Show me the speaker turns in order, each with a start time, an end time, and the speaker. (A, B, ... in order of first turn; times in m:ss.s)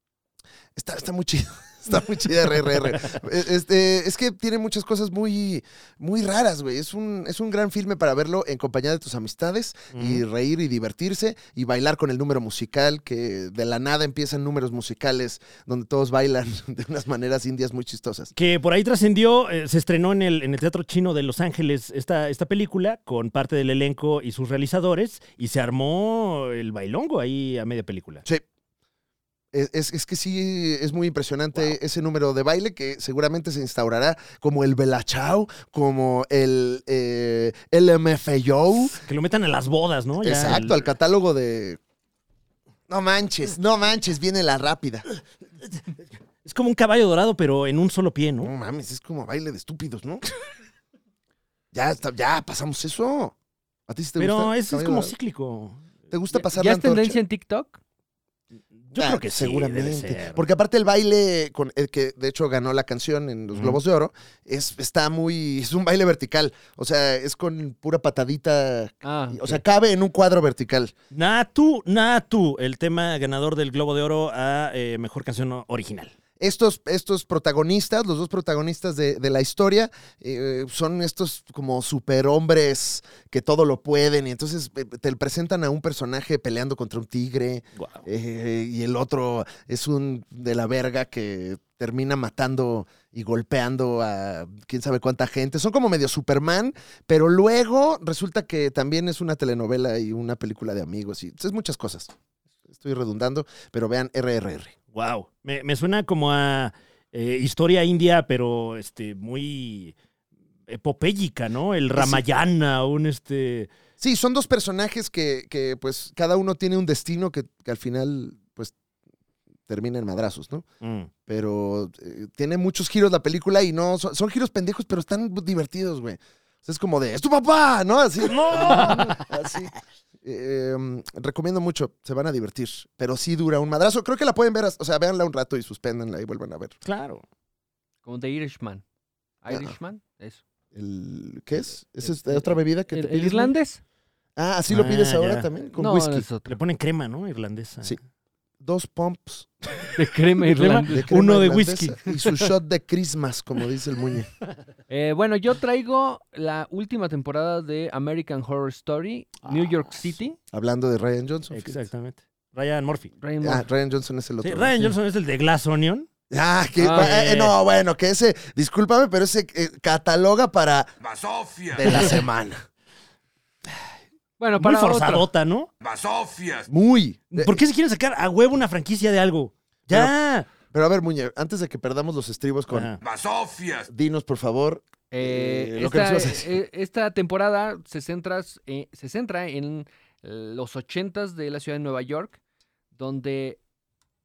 0:00.8-0:18.3 A
0:09.9-0:10.2 B
0:18.3-0:28.2 B
0:29.5-0:39.0 A
0:38.9-0:40.8 B
0:40.2-0:41.8 A
0:42.9-0:45.0 A
0:46.4-0:48.5 B
0:48.4-0:50.2 A
0:51.7-0:53.4 A
0:53.9-0:55.1 A
0:54.2-0:55.9 B
0:56.1-0:57.2 A
0:56.3-0:57.8 C
0:58.8-1:00.4 B
0:58.9-1:10.9 A
1:03.5-1:03.8 B
1:09.0-1:09.6 C
1:11.1-1:16.1 B
1:16.4-1:42.1 A
1:27.8-1:28.0 B
1:42.6-1:44.8 A
1:44.9-1:49.9 B
1:50.7-1:53.7 B
1:51.9-1:52.2 A
1:54.0-1:58.7 A
1:59.7-2:00.6 A
2:00.8-2:01.1 B
2:01.3-2:16.8 A
2:08.2-2:09.3 B
2:16.8-2:17.2 B
2:18.0-2:18.8 C
2:19.4-2:20.4 C
2:19.5-2:19.7 A
2:20.7-2:23.5 A
2:22.0-2:23.8 C
2:24.4-2:26.2 A
2:24.7-2:25.5 B
2:25.8-2:26.5 C
2:26.4-2:28.0 B
2:28.6-2:29.5 A
2:30.0-2:31.0 C
2:30.5-2:32.2 B
2:30.9-2:34.3 A
2:34.9-2:40.4 C
2:39.5-2:39.9 B
2:40.5-2:41.8 A
2:41.5-2:43.1 B
2:43.2-2:43.6 C
2:43.4-2:44.9 A
2:44.4-2:46.1 B
2:46.3-2:50.9 A
2:46.8-2:47.1 C
2:46.9-2:47.5 B
2:51.0-2:52.0 D
2:51.7-2:52.6 A
2:54.4-2:55.3 C
2:54.6-2:55.7 B
2:55.8-2:56.7 D
2:56.7-2:57.6 A
2:57.3-3:00.5 B
2:59.9-3:00.1 A
3:00.6-3:02.9 A
3:02.7-3:03.0 B
3:03.0-3:03.9 D
3:03.9-3:06.6 A
3:05.1-3:12.4 C
3:12.9-3:13.6 C